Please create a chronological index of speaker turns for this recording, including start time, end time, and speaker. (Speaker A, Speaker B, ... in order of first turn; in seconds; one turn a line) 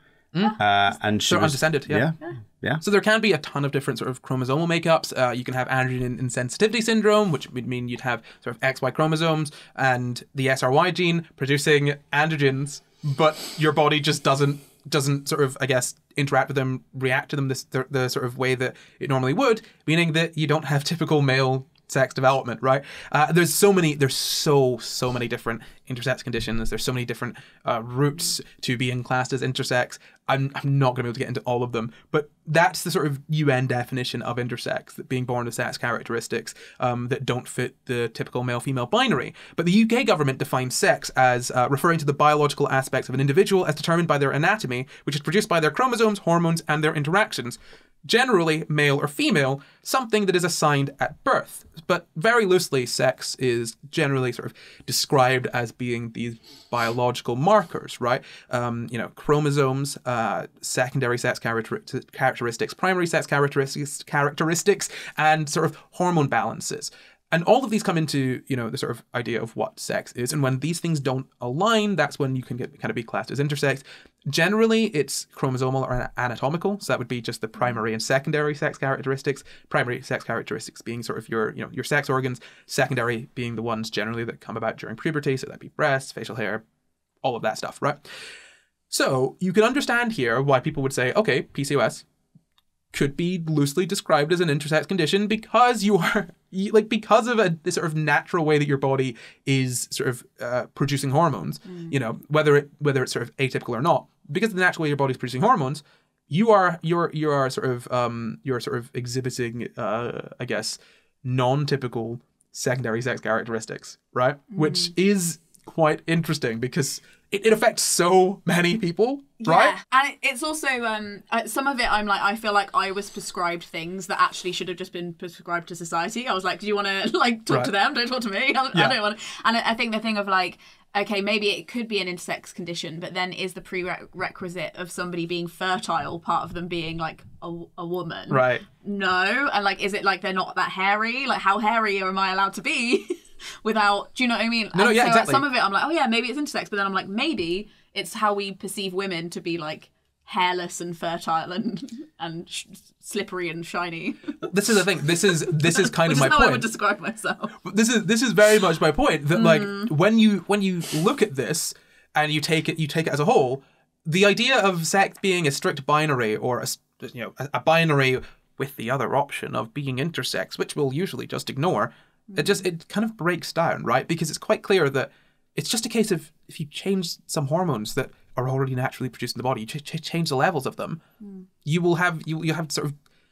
Speaker A: 0.3-0.6
Speaker B: 0.6-2.8
Speaker A: 1.3-2.1
Speaker A: 2.8-86.6
Speaker A: 87.2-88.0
Speaker A: 88.9-92.0
Speaker A: 92.9-119.7
Speaker C: 101.7-102.0
Speaker C: 114.5-114.9
Speaker C: 119.4-154.5
Speaker A: 138.3-138.6
Speaker A: 144.7-145.4
Speaker A: 154.4-156.7
Speaker C: 155.2-157.6
Speaker A: 157.6-181.0
Speaker C: 159.3-159.9
Speaker C: 172.3-172.6
Speaker A: 181.6-182.9